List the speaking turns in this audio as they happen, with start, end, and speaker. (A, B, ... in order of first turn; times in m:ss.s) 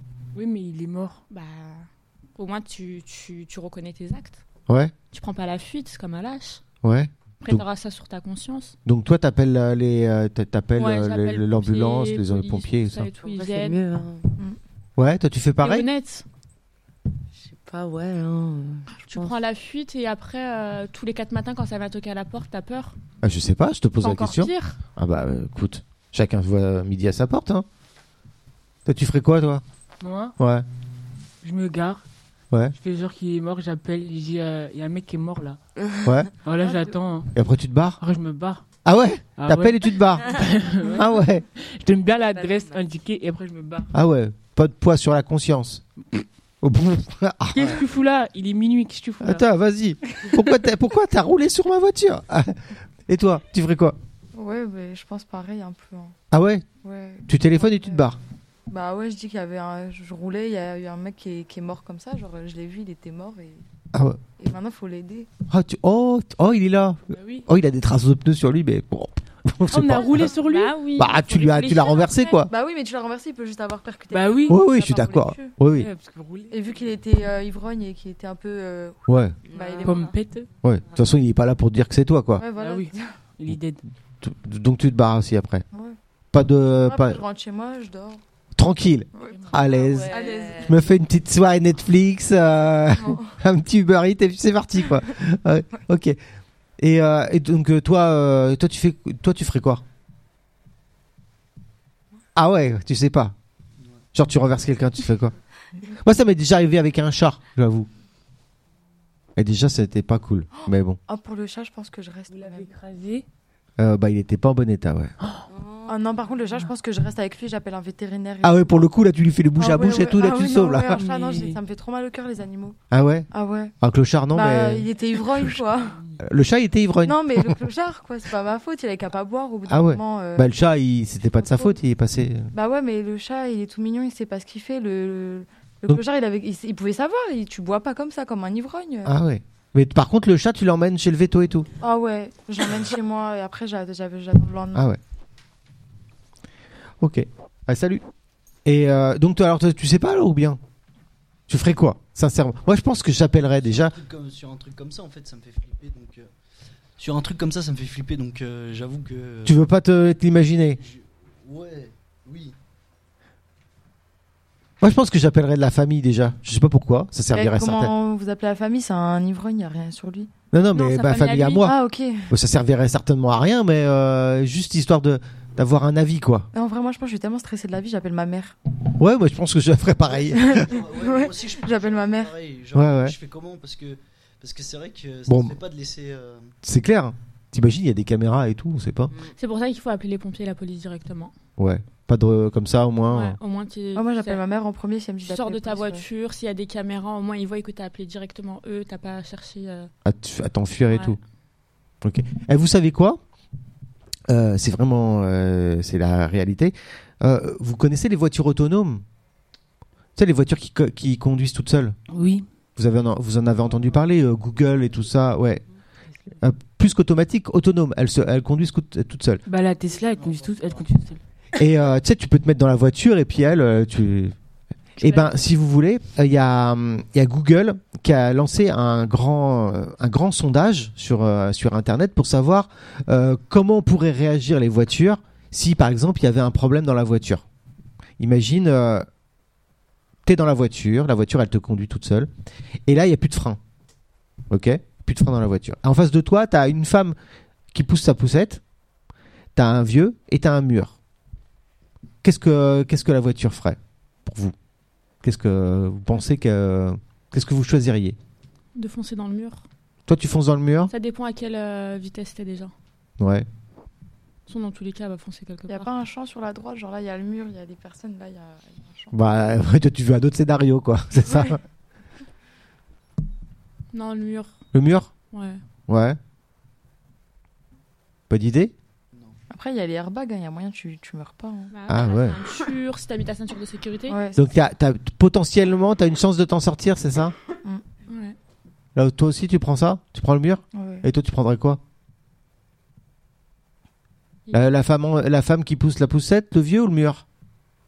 0:00.3-0:01.2 A
0:01.3-0:04.4 B
0:04.7-0:04.9 C
0:05.1-0:06.6 B
0:06.8-0:07.6 C
0:07.4-0:08.7 B
0:08.8-0:13.1 C
0:10.8-0:13.8 B
0:13.2-0:14.3 D
0:15.0-0:15.9 C
0:15.6-0:16.2 B
0:17.3-0:19.3 D
0:19.1-0:23.0 B
0:23.2-0:27.6 C
0:24.0-0:24.8 B
0:28.8-0:29.6 C
0:30.0-0:30.3 A
0:30.4-0:30.6 C
0:31.4-0:32.0 A
0:32.8-0:35.6 A
0:36.0-0:36.3 C
0:36.4-0:37.3 A
0:37.3-0:38.0 C
0:38.0-0:38.6 A
0:38.8-0:40.3 C
0:39.4-0:43.9 A
0:40.9-0:41.4 C
0:42.2-0:42.8 D
0:43.9-0:45.9 C
0:46.6-0:47.8 C
0:47.5-0:49.4 A
0:49.2-0:52.6 C
0:53.1-0:54.0 C
0:54.3-0:56.1 E
0:56.3-0:56.6 C
0:56.8-0:58.0 E
0:57.3-0:58.2 C
0:58.7-1:03.6 E
1:03.9-1:04.2 C
1:04.4-1:05.3 E
1:05.5-1:10.3 C
1:07.1-1:07.5 A
1:09.7-1:10.8 A
1:10.0-1:12.4 B
1:11.0-1:12.5 C
1:12.5-1:15.5 E
1:14.1-1:14.6 A
1:14.5-1:15.9 C
1:15.7-1:16.5 A
1:16.5-1:19.0 E
1:19.1-1:19.4 C
1:19.5-1:20.1 D
1:19.5-1:20.1 E
1:19.8-1:20.5 A
1:20.6-1:22.4 C
1:22.4-1:23.2 E
1:22.5-1:23.8 A
1:24.2-1:25.6 C
1:26.3-1:27.2 C
1:26.8-1:28.2 E
1:28.6-1:36.2 C
1:29.1-1:29.4 E
1:29.3-1:29.7 A
1:29.6-1:30.8 D
1:30.1-1:30.8 E
1:33.0-1:33.3 E
1:36.8-1:39.8 C
1:42.3-1:43.3 C
1:44.1-1:45.3 C
1:45.9-1:47.9 C
1:49.4-1:51.0 C
1:50.6-1:52.7 E
1:52.3-1:53.2 A
1:53.8-1:55.1 C
1:55.2-1:55.4 A
1:55.5-1:56.0 D
1:55.8-1:58.8 E
1:58.4-2:01.0 C
1:59.6-2:02.8 E
2:00.9-2:01.6 A
2:02.9-2:03.3 C
2:03.3-2:03.7 E
2:03.8-2:04.9 C
2:04.3-2:06.0 E
2:06.2-2:07.5 C
2:07.0-2:10.5 E
2:09.7-2:12.5 C
2:11.3-2:11.8 E
2:12.5-2:19.1 E
2:19.0-2:21.7 C
2:21.8-2:24.8 E
2:27.0-2:28.0 C
2:28.6-2:30.6 C
2:31.5-2:34.0 C
2:33.6-2:36.3 F
2:37.0-2:39.6 F
2:39.4-2:40.8 C
2:40.8-2:42.6 F
2:44.8-2:47.9 C
2:47.3-2:50.3 E
2:50.5-2:51.8 C
2:50.7-2:51.7 B
2:51.6-2:52.3 E
2:52.3-2:56.5 C
2:56.5-2:58.6 E
2:59.0-3:00.8 C
3:00.3-3:02.3 E
3:00.6-3:06.5 F
3:02.7-3:03.1 C
3:05.3-3:05.6 C
3:06.6-3:09.1 C
3:09.4-3:11.3 B
3:11.6-3:13.4 C
3:13.1-3:14.4 B
3:13.9-3:16.0 E
3:15.2-3:19.9 B
3:20.0-3:21.2 C
3:20.9-3:21.2 B
3:22.0-3:23.2 C
3:24.3-3:29.0 C
3:30.2-3:32.0 C
3:32.1-3:32.4 A
3:32.8-3:35.6 C
3:36.4-3:39.4 C
3:39.4-3:41.2 A
3:39.9-3:40.8 F
3:41.5-3:44.3 C
3:45.0-3:57.4 C
3:58.2-3:59.0 C
4:00.2-4:02.3 C
4:02.9-4:03.6 C
4:04.5-4:07.1 C
4:07.7-4:08.6 C
4:09.5-4:10.9 C
4:12.2-4:14.5 C
4:15.2-4:18.2 C
4:18.7-4:19.6 B
4:20.1-4:20.9 C
4:20.9-4:22.7 B
4:23.2-4:23.4 C
4:24.5-4:25.9 B
4:25.7-4:29.2 E
4:29.1-4:31.6 C
4:33.9-4:34.5 B
4:34.7-4:35.1 C
4:35.3-4:35.6 B
4:35.9-4:36.2 C
4:38.3-4:38.7 C
4:39.5-4:41.7 E
4:41.7-4:44.2 B
4:41.9-4:42.4 C
4:44.1-4:44.4 E
4:44.4-4:47.3 C
4:48.1-4:48.4 B
4:48.9-4:51.8 C
4:50.7-4:51.0 E
4:54.5-4:57.2 C